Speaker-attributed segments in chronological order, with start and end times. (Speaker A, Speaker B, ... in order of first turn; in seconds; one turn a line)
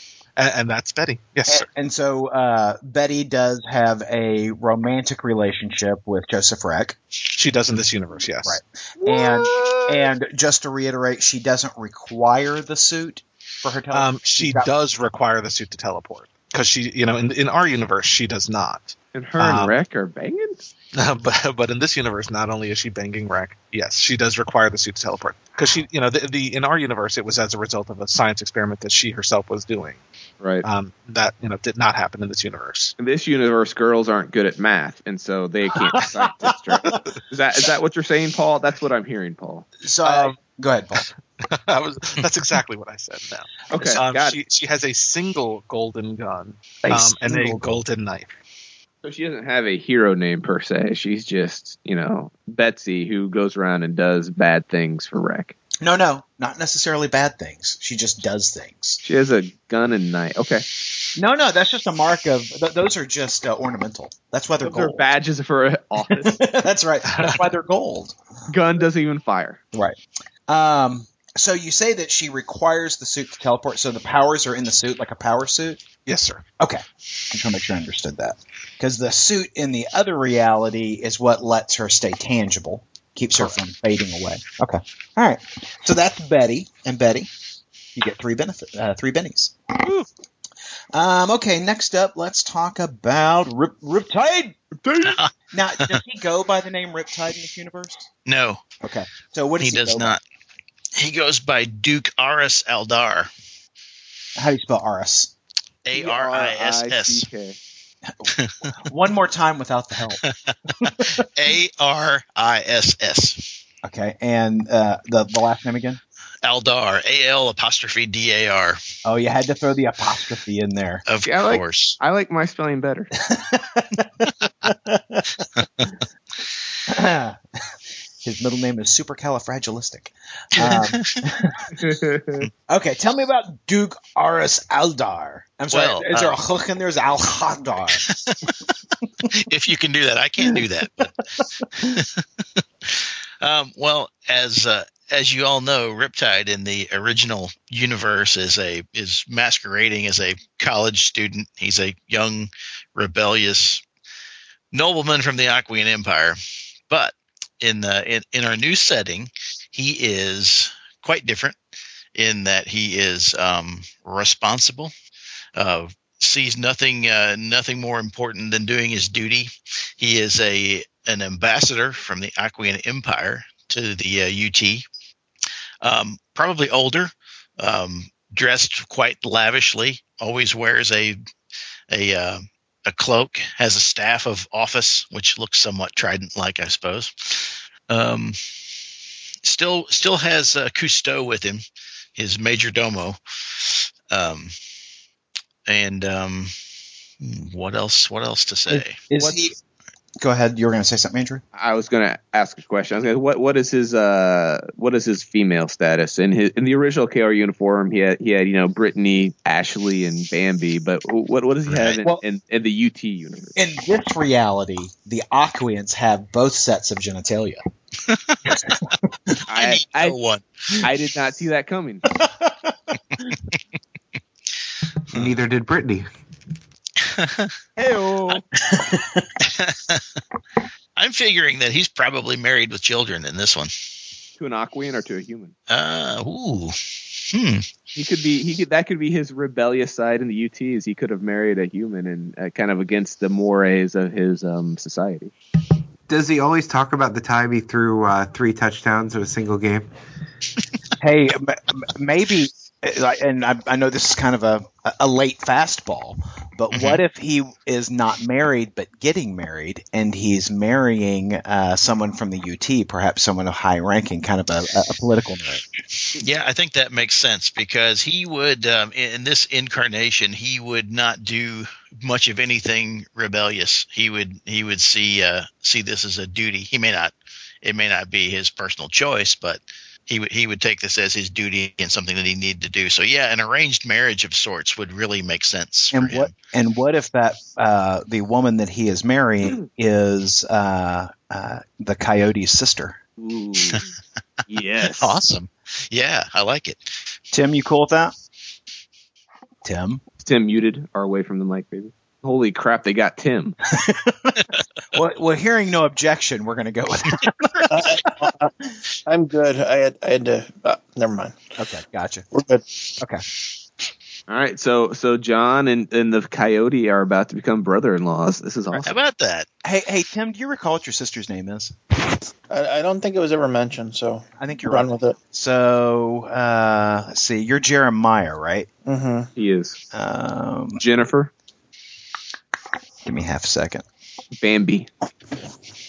Speaker A: 0.4-1.7
Speaker B: 1.5-7.0
Speaker A: 7.3-10.1
Speaker B: 8.4-14.7
Speaker A: 13.9-19.8
Speaker C: 19.1-20.6
Speaker A: 21.0-30.0
Speaker C: 30.4-30.7
Speaker A: 30.6-33.0
Speaker C: 33.0-39.7
Speaker B: 39.8-41.1
Speaker A: 40.0-40.3
Speaker A: 41.5-48.4
Speaker C: 43.7-44.4
Speaker C: 46.9-47.8
Speaker C: 49.0-55.5
Speaker B: 55.8-59.0
Speaker C: 59.0-60.7
Speaker B: 61.1-65.1
Speaker C: 64.6-66.4
Speaker B: 66.0-68.2
Speaker A: 67.2-67.4
Speaker C: 68.5-69.6
Speaker B: 70.5-75.8
Speaker A: 76.0-76.5
Speaker B: 76.6-87.3
Speaker B: 88.0-89.5
Speaker B: 90.9-94.6
Speaker C: 94.8-95.2
Speaker D: 95.0-95.3
Speaker B: 95.5-98.1
Speaker D: 98.3-98.6
Speaker B: 98.8-100.2
Speaker D: 99.6-100.2
Speaker D: 101.0-103.3
Speaker B: 104.3-105.3
Speaker D: 105.8-107.3
Speaker C: 105.9-107.6
Speaker B: 108.1-110.2
Speaker D: 108.3-108.7
Speaker D: 110.2-113.5
Speaker B: 110.8-111.2
Speaker B: 113.8-116.0
Speaker D: 116.4-118.8
Speaker B: 119.0-121.0
Speaker D: 121.1-122.0
Speaker C: 121.2-123.1
Speaker B: 123.2-125.5
Speaker B: 126.9-127.4
Speaker B: 128.2-131.7
Speaker D: 130.6-131.2
Speaker C: 131.8-132.5
Speaker B: 132.7-138.0
Speaker D: 135.7-136.3
Speaker D: 138.0-138.5
Speaker D: 139.3-141.1
Speaker B: 141.6-141.9
Speaker D: 141.8-142.2
Speaker D: 142.8-153.8
Speaker D: 154.7-156.4
Speaker D: 156.9-161.6
Speaker D: 162.2-164.9
Speaker D: 165.6-174.8
Speaker D: 175.8-181.2
Speaker D: 181.9-188.4
Speaker D: 189.4-191.6
Speaker D: 192.2-194.5
Speaker D: 195.7-196.5
Speaker D: 197.2-199.0
Speaker B: 198.7-199.6
Speaker B: 200.2-201.4
Speaker C: 201.5-213.5
Speaker D: 211.7-212.0
Speaker B: 213.6-217.6
Speaker D: 218.1-218.8
Speaker C: 219.5-220.2
Speaker D: 219.5-220.8
Speaker C: 220.8-222.0
Speaker B: 222.2-223.3
Speaker E: 225.1-226.1
Speaker D: 227.0-227.5
Speaker C: 227.8-228.4
Speaker B: 228.7-229.3
Speaker D: 229.4-230.0
Speaker D: 231.0-233.7
Speaker C: 234.4-235.5
Speaker D: 235.7-237.7
Speaker C: 237.9-245.3
Speaker E: 246.1-249.9
Speaker B: 251.0-265.6
Speaker D: 256.7-257.0
Speaker D: 266.1-286.3
Speaker B: 285.9-293.0
Speaker C: 293.2-293.9
Speaker C: 294.5-295.2
Speaker D: 295.0-296.9
Speaker B: 297.3-298.1
Speaker B: 299.6-300.0
Speaker C: 300.2-303.6
Speaker B: 303.7-304.4
Speaker B: 304.9-308.3
Speaker F: 307.7-308.5
Speaker F: 309.1-311.4
Speaker B: 311.6-312.2
Speaker F: 312.3-312.6
Speaker C: 314.3-318.9
Speaker D: 318.8-319.5
Speaker B: 319.6-321.8
Speaker F: 322.5-325.2
Speaker B: 324.4-328.7
Speaker F: 328.9-329.3
Speaker C: 329.4-329.8
Speaker B: 329.9-330.8
Speaker C: 330.8-331.3
Speaker B: 333.1-333.9
Speaker C: 334.4-334.9